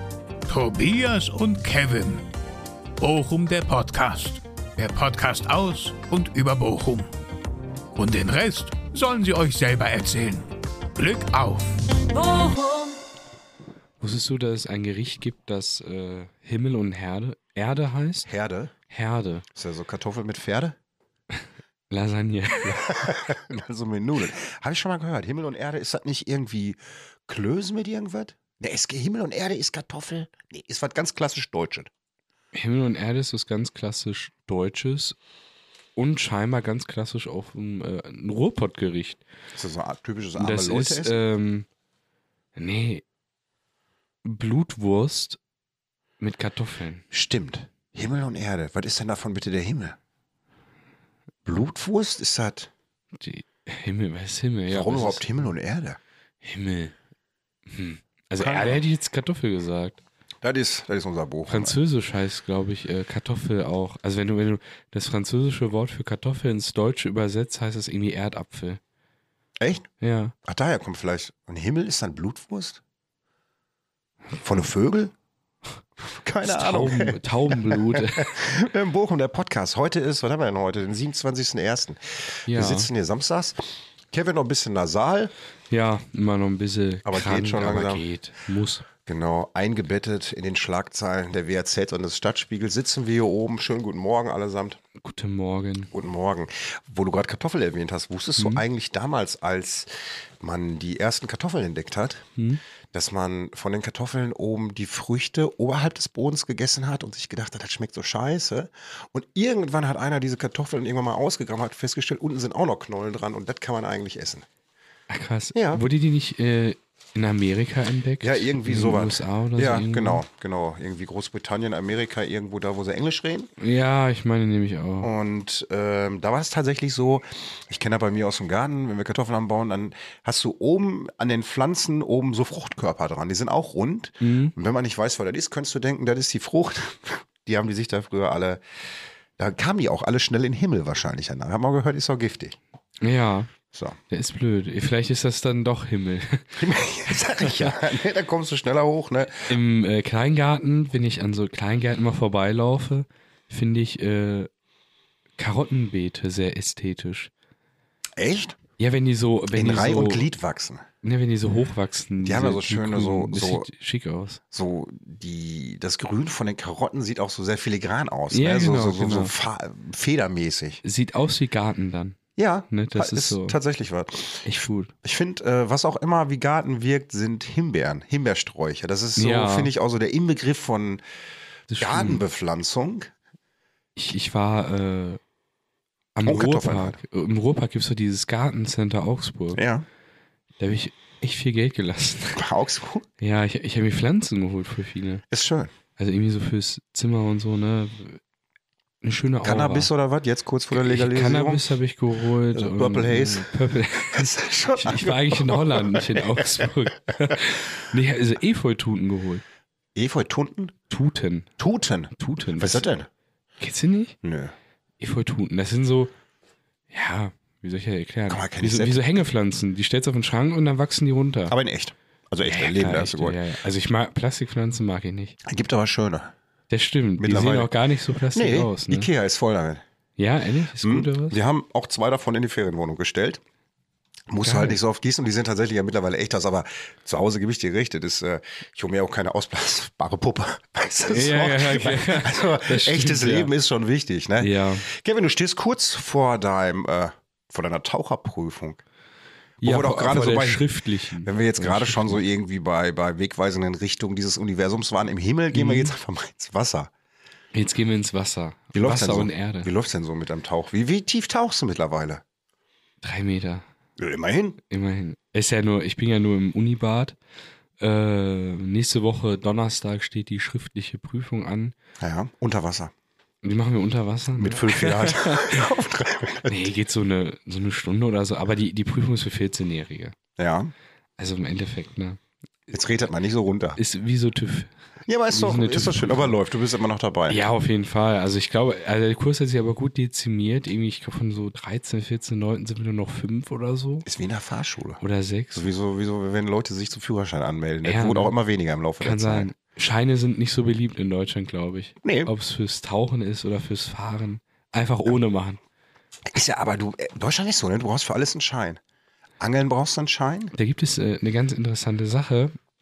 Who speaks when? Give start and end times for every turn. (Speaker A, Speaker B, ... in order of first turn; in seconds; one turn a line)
Speaker A: 0.5-2.3
Speaker A: 3.0-7.1
Speaker A: 8.0-12.9
Speaker B: 14.0-18.3
Speaker C: 18.2-18.7
Speaker B: 18.9-19.4
Speaker C: 19.5-20.8
Speaker B: 21.9-23.0
Speaker C: 22.8-31.9
Speaker B: 32.5-35.2
Speaker B: 36.0-39.2
Speaker C: 39.5-41.1
Speaker B: 40.4-41.7
Speaker B: 42.5-43.0
Speaker B: 44.2-45.4
Speaker B: 46.2-47.0
Speaker C: 47.1-50.0
Speaker C: 51.5-52.7
Speaker B: 53.2-55.3
Speaker C: 54.7-56.0
Speaker B: 56.4-57.0
Speaker B: 57.7-60.0
Speaker C: 58.4-58.8
Speaker C: 60.4-61.8
Speaker B: 61.5-68.8
Speaker C: 69.6-69.9
Speaker B: 70.0-70.3
Speaker C: 70.4-72.8
Speaker C: 74.4-75.1
Speaker C: 76.0-85.3
Speaker B: 76.4-78.3
Speaker B: 82.5-82.9
Speaker B: 85.7-88.9
Speaker C: 87.0-88.0
Speaker C: 89.0-94.8
Speaker B: 95.0-95.9
Speaker C: 95.9-102.3
Speaker B: 98.4-98.6
Speaker C: 102.9-114.5
Speaker B: 115.1-120.2
Speaker C: 115.5-115.8
Speaker C: 118.2-123.5
Speaker B: 123.6-125.1
Speaker C: 125.0-138.6
Speaker B: 134.2-134.5
Speaker C: 139.4-142.6
Speaker B: 143.0-143.5
Speaker C: 143.7-144.0
Speaker B: 144.1-146.6
Speaker C: 146.6-149.5
Speaker B: 147.4-147.8
Speaker B: 149.4-154.5
Speaker B: 155.4-157.3
Speaker C: 158.2-158.6
Speaker B: 158.8-160.2
Speaker C: 159.5-160.8
Speaker B: 161.0-164.4
Speaker C: 162.2-163.7
Speaker C: 164.5-170.8
Speaker B: 168.3-169.3
Speaker B: 170.8-172.2
Speaker C: 172.4-174.4
Speaker B: 172.7-173.6
Speaker B: 174.4-174.9
Speaker C: 175.0-181.0
Speaker B: 179.2-179.7
Speaker B: 181.7-182.2
Speaker C: 181.8-183.1
Speaker B: 183.9-185.2
Speaker B: 186.1-189.6
Speaker C: 186.2-187.0
Speaker C: 189.5-189.8
Speaker B: 190.6-192.4
Speaker C: 192.3-193.1
Speaker B: 193.2-195.2
Speaker C: 195.3-195.7
Speaker B: 196.0-198.2
Speaker B: 199.0-199.9
Speaker C: 199.4-201.6
Speaker B: 200.7-209.4
Speaker C: 202.5-206.7
Speaker C: 209.9-210.8
Speaker B: 210.9-211.5
Speaker C: 211.6-213.1
Speaker B: 212.2-212.8
Speaker B: 213.6-214.2
Speaker C: 214.2-214.5
Speaker B: 215.0-216.1
Speaker B: 216.9-221.5
Speaker C: 218.3-219.0
Speaker C: 221.5-223.4
Speaker B: 222.4-225.4
Speaker C: 225.4-226.3
Speaker B: 226.7-229.1
Speaker C: 227.2-227.7
Speaker C: 228.3-229.8
Speaker B: 230.2-231.4
Speaker C: 230.8-233.4
Speaker C: 234.3-248.8
Speaker B: 234.4-234.8
Speaker B: 241.1-243.5
Speaker B: 244.4-244.9
Speaker B: 249.6-252.2
Speaker C: 249.6-256.9
Speaker B: 255.5-255.9
Speaker B: 257.5-259.7
Speaker C: 258.7-262.2
Speaker B: 263.0-263.6
Speaker C: 264.0-264.6
Speaker B: 264.7-267.2
Speaker B: 267.8-271.8
Speaker C: 272.0-272.9
Speaker B: 273.4-275.7
Speaker C: 274.4-276.7
Speaker B: 276.5-280.2
Speaker C: 280.4-280.7
Speaker B: 281.2-282.2
Speaker C: 282.7-283.8
Speaker B: 283.8-284.7
Speaker C: 285.1-287.5
Speaker B: 285.3-286.4
Speaker B: 287.3-294.1
Speaker C: 294.1-295.0
Speaker B: 295.0-295.6
Speaker C: 295.6-299.5
Speaker B: 297.8-298.3
Speaker B: 299.0-305.6
Speaker C: 302.0-302.3
Speaker C: 306.3-308.8
Speaker C: 309.4-310.5
Speaker B: 310.6-312.6